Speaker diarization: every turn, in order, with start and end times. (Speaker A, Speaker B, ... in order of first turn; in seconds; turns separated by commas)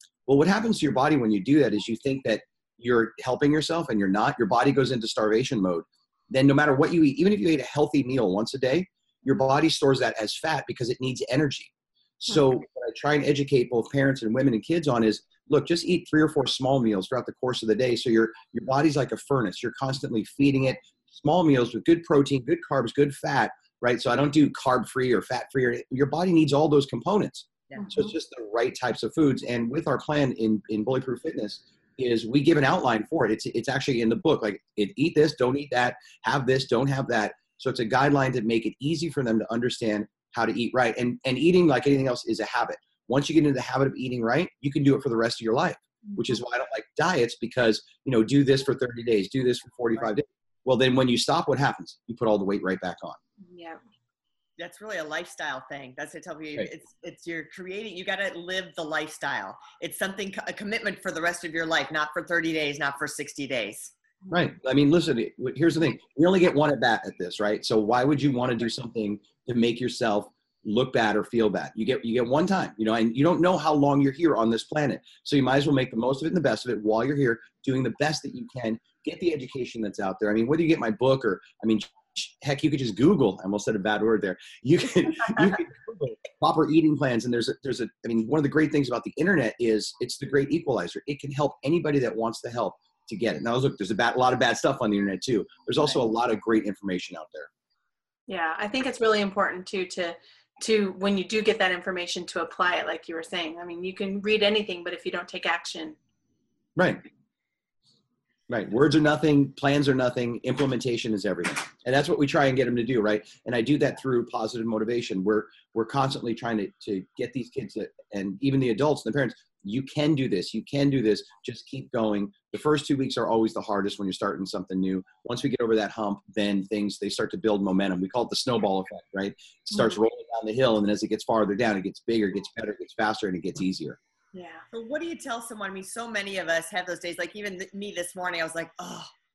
Speaker A: 0.3-53.2, Speaker B: 27.8-28.1, Speaker B: 53.4-53.8, Speaker C: 54.6-63.9, Speaker A: 64.3-97.5, Speaker B: 98.3-106.0, Speaker A: 106.8-107.0, Speaker A: 108.5-134.0, Speaker B: 129.7-130.0, Speaker B: 134.3-134.6, Speaker C: 134.7-139.1